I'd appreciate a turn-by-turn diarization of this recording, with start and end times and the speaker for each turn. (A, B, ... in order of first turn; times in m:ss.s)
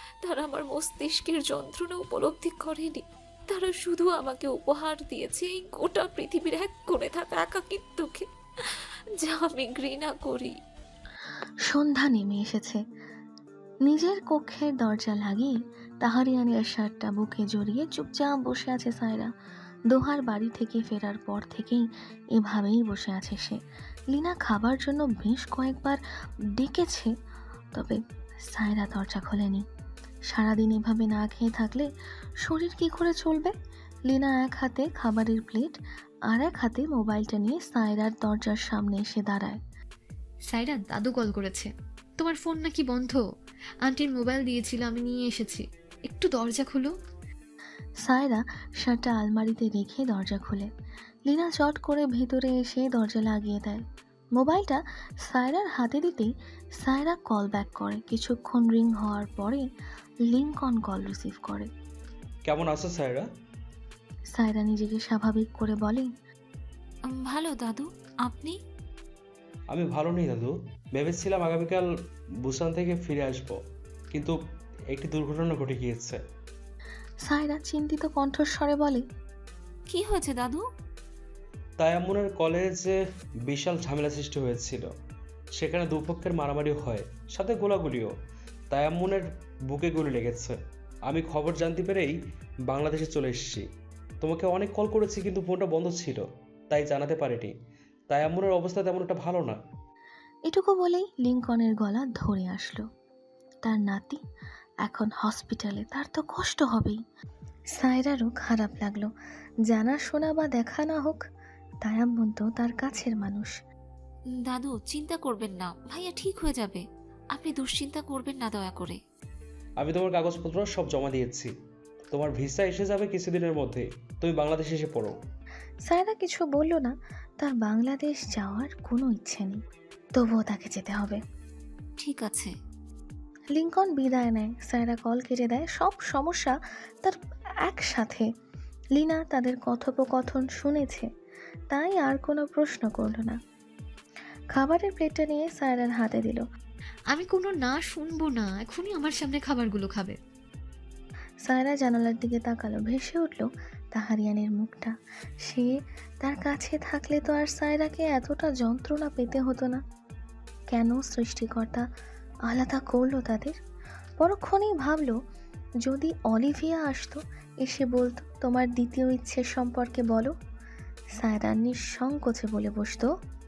0:00.2-0:08.2 A
0:09.2-0:10.5 A
0:11.7-0:12.8 B
0:13.8-0:19.3 B
0:19.9-0:21.8 B
0:22.4-0:23.6 B
0:24.1-0:26.0 B
0:26.6-0:27.1 B
0:28.5-0:29.6 B
0:30.3-0:31.9 B
0:32.4-0:33.5 B
0:34.1-0:35.7 B
0:36.3-0:39.6 B
0:40.5-0:43.2 C
0:43.8-0:46.9 C
0:48.0-0:50.7 B
0:51.3-0:53.8 B
0:54.4-0:56.3 B
0:56.8-0:59.6 B
1:00.3-1:01.7 B
1:02.4-1:03.2 D
1:04.3-1:06.1 B
1:07.1-1:08.6 A
1:09.7-1:11.9 D
1:12.4-1:13.6 D
1:14.1-1:14.4 D
1:14.9-1:16.2 D
1:17.2-1:19.0 B
1:19.9-1:20.6 A
1:21.8-1:22.9 D
1:23.5-1:24.9 D
1:25.6-1:28.1 D
1:28.7-1:32.2 D
1:32.7-1:33.6 D
1:34.2-1:37.5 D
1:38.1-1:39.6 D
1:40.5-1:42.8 B
1:43.6-1:44.2 B
1:44.8-1:47.0 B
1:47.8-1:49.1 B
1:49.7-1:51.2 B
1:51.8-1:53.5 B
1:54.4-1:59.0 A
1:59.8-2:01.5 D
2:02.1-2:05.2 D
2:05.9-2:09.6 B
2:10.2-2:11.2 B
2:12.0-2:12.5 A
2:13.5-2:18.2 B
2:19.0-2:21.0 B
2:21.7-2:23.4 B
2:24.5-2:26.4 B
2:27.1-2:30.2 C
2:31.4-2:34.9 B
2:35.4-2:35.7 B
2:36.2-2:39.8 B
2:40.7-2:41.8 B
2:42.5-2:43.6 B
2:44.2-2:45.1 B
2:45.8-2:50.3 B
2:51.2-2:53.1 B